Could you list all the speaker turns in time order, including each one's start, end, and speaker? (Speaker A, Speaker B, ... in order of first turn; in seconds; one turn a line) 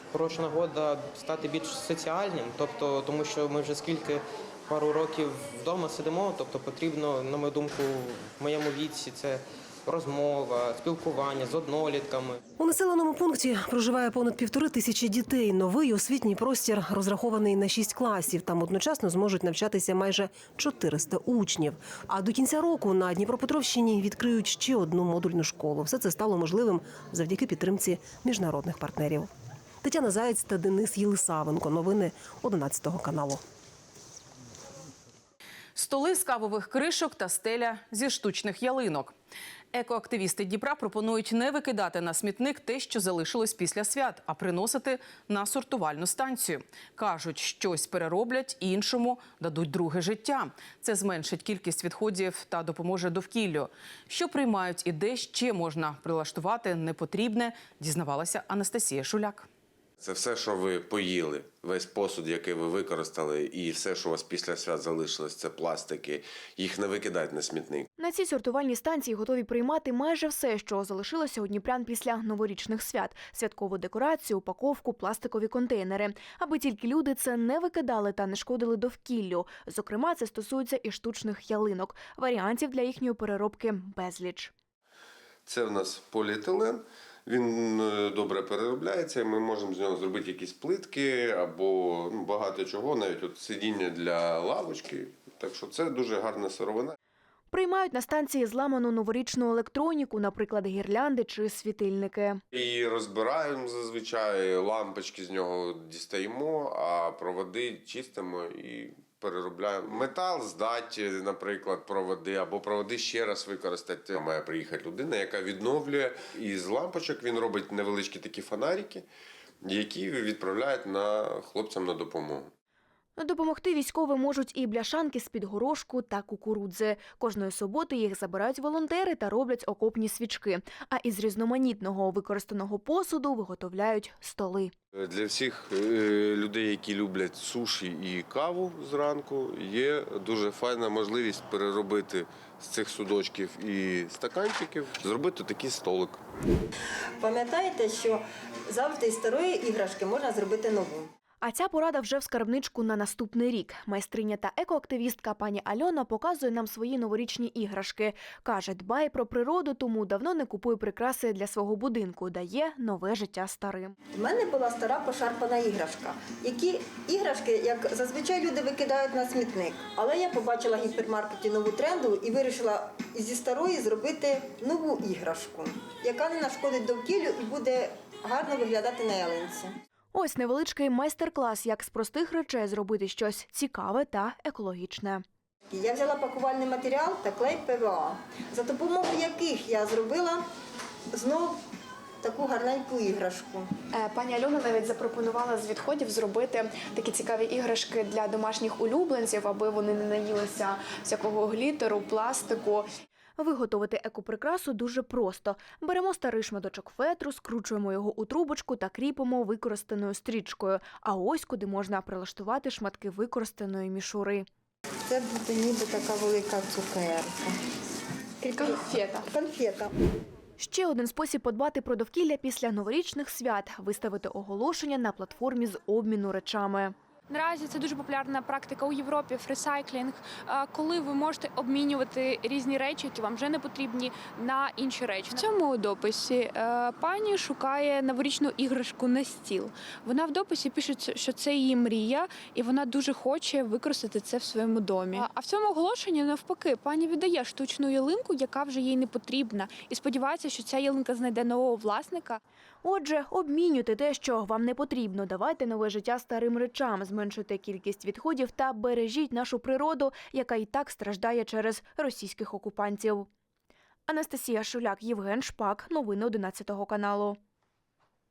Speaker A: 0.1-12.4
Speaker B: 12.6-29.3
Speaker B: 29.8-33.4
Speaker C: 35.7-39.1
Speaker C: 39.7-59.5
Speaker D: 60.0-67.9
Speaker E: 68.0-84.5
Speaker D: 85.5-96.9
Speaker E: 97.5-102.4
Speaker D: 102.5-119.0
Speaker D: 119.6-122.5
Speaker E: 123.2-134.7
Speaker D: 134.9-146.2
Speaker F: 147.2-151.1
Speaker E: 151.4-163.9
Speaker F: 164.1-179.7
Speaker E: 180.1-185.2
Speaker F: 185.7-190.4
Speaker F: 191.1-191.6
Speaker F: 192.2-193.7
Speaker E: 203.4-214.5
Speaker F: 215.1-217.6
Speaker F: 218.4-219.9
Speaker E: 220.6-226.9
Speaker G: 227.3-252.4
Speaker E: 252.8-263.3
Speaker E: 264.1-267.4